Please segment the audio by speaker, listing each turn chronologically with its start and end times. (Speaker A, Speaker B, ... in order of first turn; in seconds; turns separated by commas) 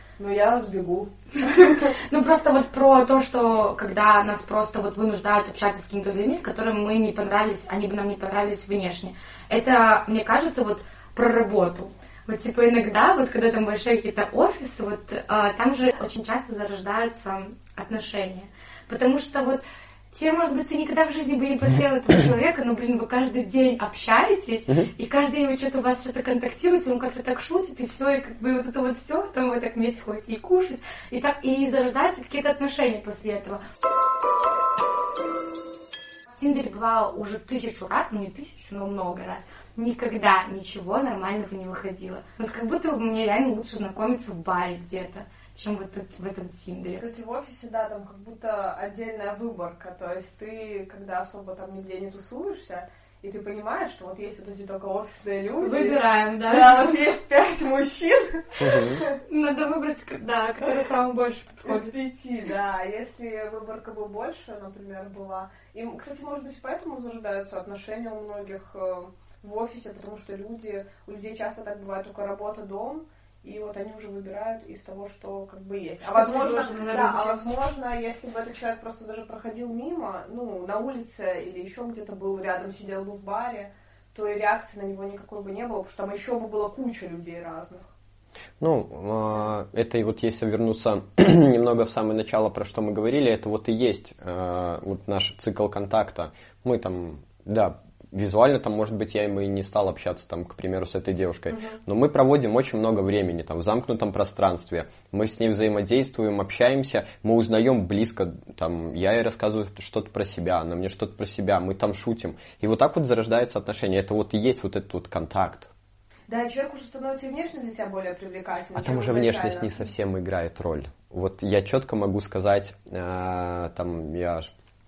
Speaker A: 0.2-1.1, Speaker B: 1.4-33.6, Speaker B: 36.3-47.0, Speaker A: 47.0-59.1, Speaker B: 55.6-57.0, Speaker C: 58.6-59.0, Speaker B: 59.2-61.9, Speaker A: 61.6-87.9, Speaker B: 76.0-77.5, Speaker C: 88.6-115.7, Speaker A: 116.3-119.7, Speaker C: 118.7-124.5